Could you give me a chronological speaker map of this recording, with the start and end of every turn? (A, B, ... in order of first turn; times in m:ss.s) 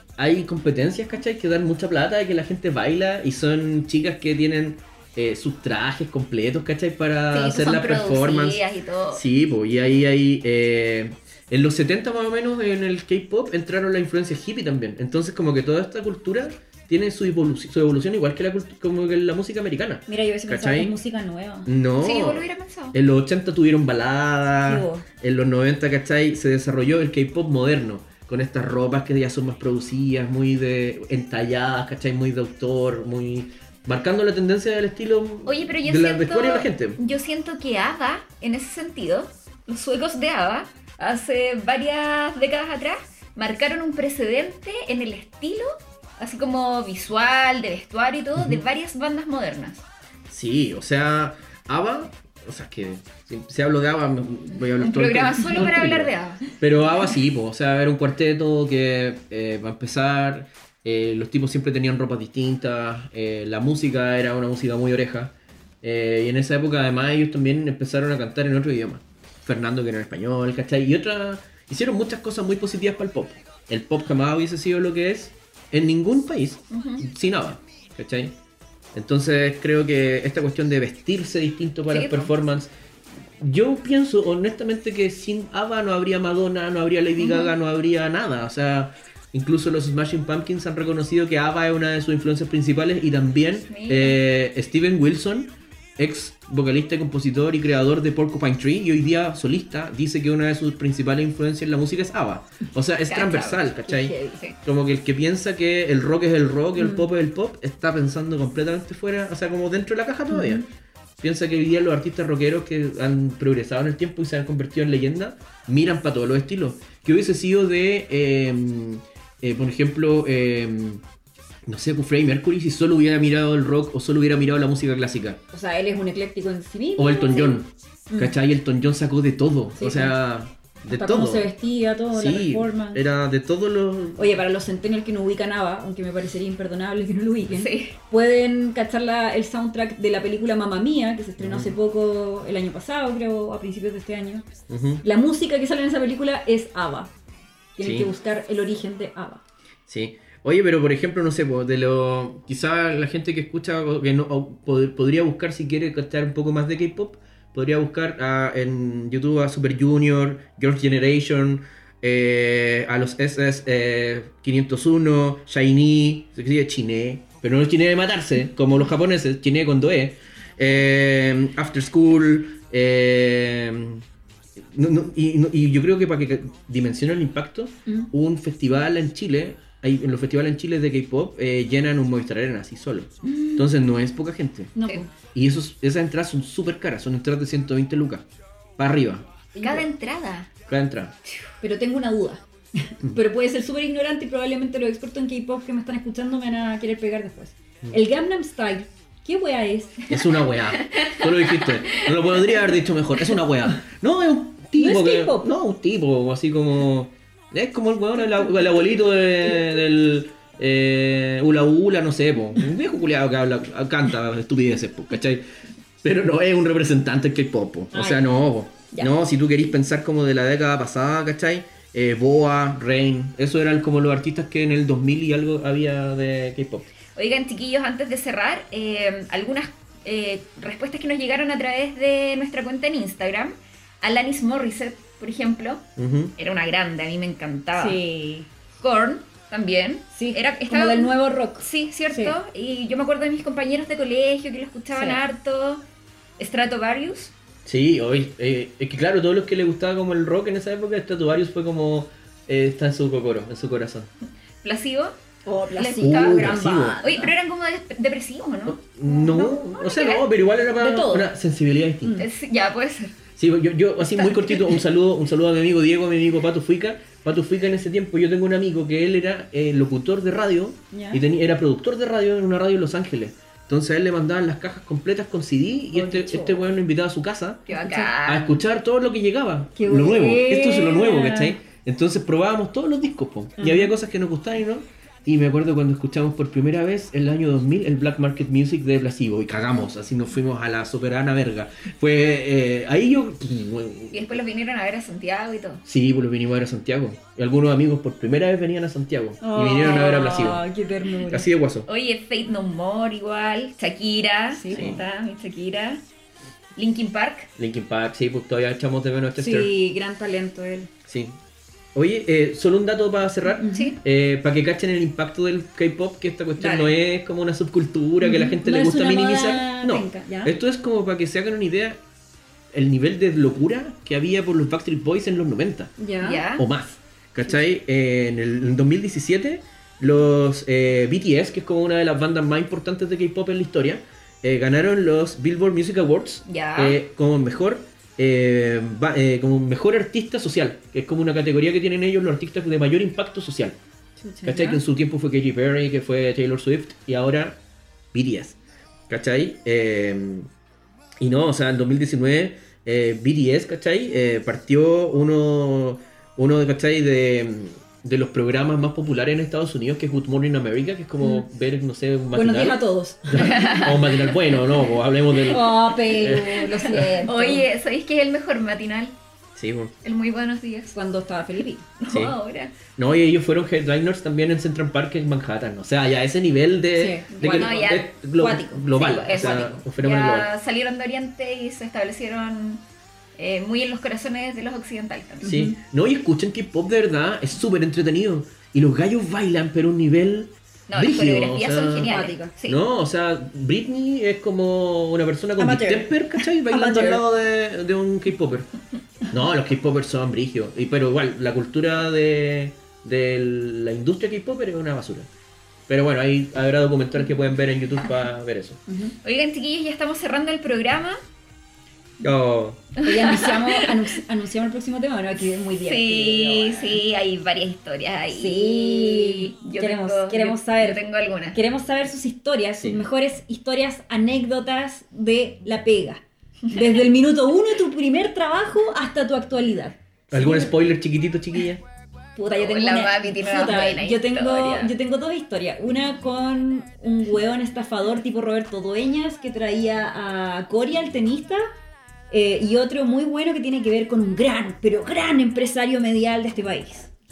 0:00.2-0:20.9 A
0:07.3-0:09.2 B
0:20.1-0:21.7 C
0:21.6-0:37.0 A
0:22.0-0:23.0 B
0:24.6-0:25.1 C
0:35.4-0:49.8 B
0:50.3-1:18.4 A
0:54.8-0:56.5 B
1:16.7-1:17.0 B
1:18.9-1:22.7 A
1:21.9-1:22.3 B
1:23.4-1:50.6 A
1:33.7-1:34.2 B
1:43.1-1:44.6 B
1:46.8-1:47.0 C
1:50.3-1:50.6 C
1:51.2-2:01.0 A
2:01.7-2:05.4 A
2:05.5-2:08.3 C
2:07.0-2:11.5 A
2:09.8-2:10.2 C
2:10.9-2:13.0 C
2:12.1-2:14.4 A
2:14.2-2:24.5 C
2:17.5-2:17.9 B
2:21.4-2:21.8 A
2:24.7-2:25.0 A
2:25.0-2:27.1 C
2:27.8-2:29.4 C
2:27.8-2:28.1 A
2:29.9-2:54.0 A
2:54.6-3:04.7 A
3:03.2-3:03.7 C
3:04.8-3:05.1 C
3:05.3-3:08.2 A
3:08.8-3:09.3 A
3:09.5-3:09.9 C
3:09.6-3:10.5 B
3:10.7-3:11.1 A
3:11.6-3:20.1 C
3:20.1-3:35.4 A
3:20.9-3:22.1 B
3:24.8-3:25.5 C
3:36.0-3:46.9 A
3:37.9-3:38.2 C
3:47.2-3:55.8 B
3:56.0-3:56.3 A
3:56.4-3:58.0 B
3:57.8-3:58.5 C
3:58.8-4:05.8 B
4:00.1-4:02.4 C
4:04.9-4:05.2 C
4:06.4-4:07.3 B
4:07.7-4:14.1 A
4:14.6-4:15.2 B
4:15.5-4:17.3 C
4:15.8-4:20.2 B
4:16.0-4:17.0 A
4:18.7-4:22.2 A
4:20.8-4:21.3 C
4:22.0-4:22.3 C
4:22.2-4:23.2 B
4:23.4-4:37.7 A
4:24.0-4:24.8 B
4:30.9-4:31.2 C
4:35.9-4:36.6 C
4:37.7-4:38.1 C
4:37.7-4:38.6 B
4:38.2-4:54.4 A
4:39.8-4:41.6 C
4:43.6-4:43.9 C
4:54.1-4:55.8 B
4:55.8-5:00.6 A
4:59.4-5:01.5 C
5:01.3-5:01.9 A
5:01.9-5:06.0 B
5:04.5-5:05.0 C
5:04.7-5:05.0 A
5:06.8-5:07.5 B
5:07.6-5:09.7 A
5:09.4-5:10.9 C
5:11.0-5:11.4 A
5:11.9-5:22.0 A
5:13.6-5:13.9 C
5:16.6-5:17.0 C
5:18.2-5:20.6 C
5:22.7-5:26.0 A
5:26.0-5:26.4 C
5:26.2-5:26.7 B
5:26.5-5:43.8 A
5:36.5-5:37.0 B
5:44.2-5:44.8 C
5:44.4-5:47.6 A
5:48.1-5:48.6 A
5:49.1-5:50.5 A
5:51.2-6:07.2 A
6:02.3-6:03.3 C
6:03.4-6:04.2 B
6:05.5-6:07.7 C
6:07.2-6:09.1 B
6:09.6-6:09.9 A
6:10.0-6:11.0 B
6:10.9-6:11.9 C
6:12.0-6:12.8 B
6:12.1-6:12.4 A
6:13.0-6:20.5 A
6:17.0-6:17.8 C
6:17.4-6:18.2 B
6:18.4-6:19.2 C
6:18.9-6:22.8 B
6:23.4-6:25.6 B
6:25.4-6:25.8 C
6:25.4-6:38.7 A
6:30.9-6:32.8 B
6:32.1-6:32.5 C
6:35.6-6:37.2 C
6:39.3-6:45.3 A
6:45.9-6:48.8 A
6:48.9-6:49.2 C
6:49.2-6:51.2 B
6:52.2-6:52.9 A
6:53.0-6:53.9 B
6:53.0-6:57.0 C
6:55.8-7:01.6 B
6:58.3-7:01.0 C
7:01.5-7:10.7 C
7:10.3-7:11.8 A
7:12.4-7:21.7 C
7:12.5-7:14.9 B
7:22.3-7:27.1 C